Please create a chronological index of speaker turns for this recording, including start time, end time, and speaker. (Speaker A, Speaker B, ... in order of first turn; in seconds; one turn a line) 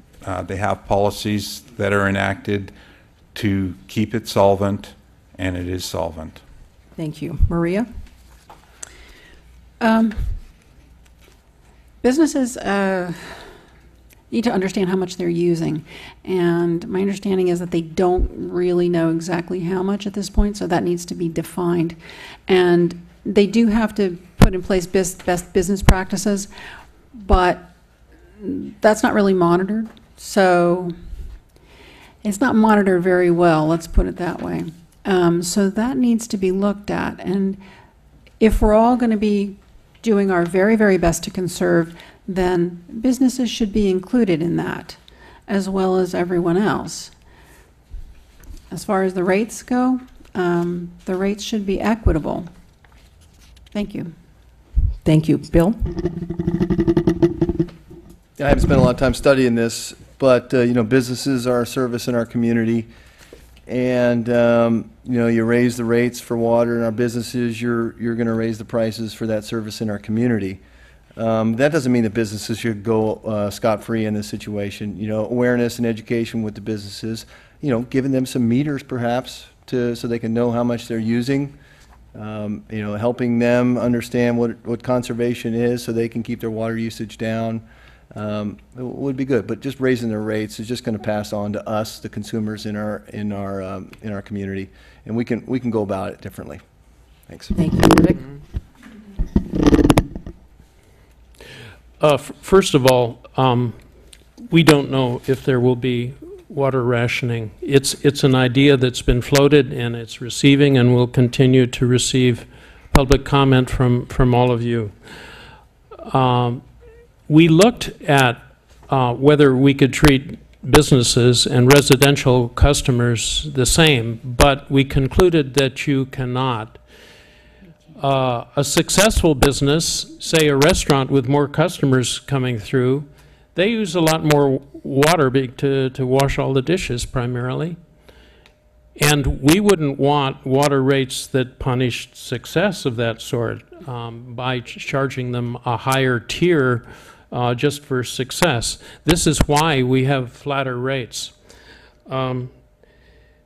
Speaker A: 0.2-2.7
Speaker A: 3.3-6.4
Speaker B: 7.0-7.9
Speaker C: 9.8-10.4
Speaker C: 12.0-13.5
Speaker C: 14.3-26.5
Speaker C: 27.1-27.7
Speaker C: 28.4-30.9
Speaker C: 32.2-37.6
Speaker C: 38.4-47.1
Speaker C: 48.7-52.5
Speaker C: 53.7-54.1
Speaker B: 55.0-56.3
Speaker D: 58.4-62.9
Speaker D: 63.7-70.6
Speaker D: 71.2-81.5
Speaker D: 82.1-96.6
Speaker D: 97.3-97.5
Speaker B: 97.5-98.3
Speaker E: 102.0-103.8
Speaker E: 104.5-115.0
Speaker E: 116.0-116.6
Speaker E: 117.3-126.8
Speaker E: 128.0-137.8
Speaker E: 139.0-151.3
Speaker E: 152.1-152.5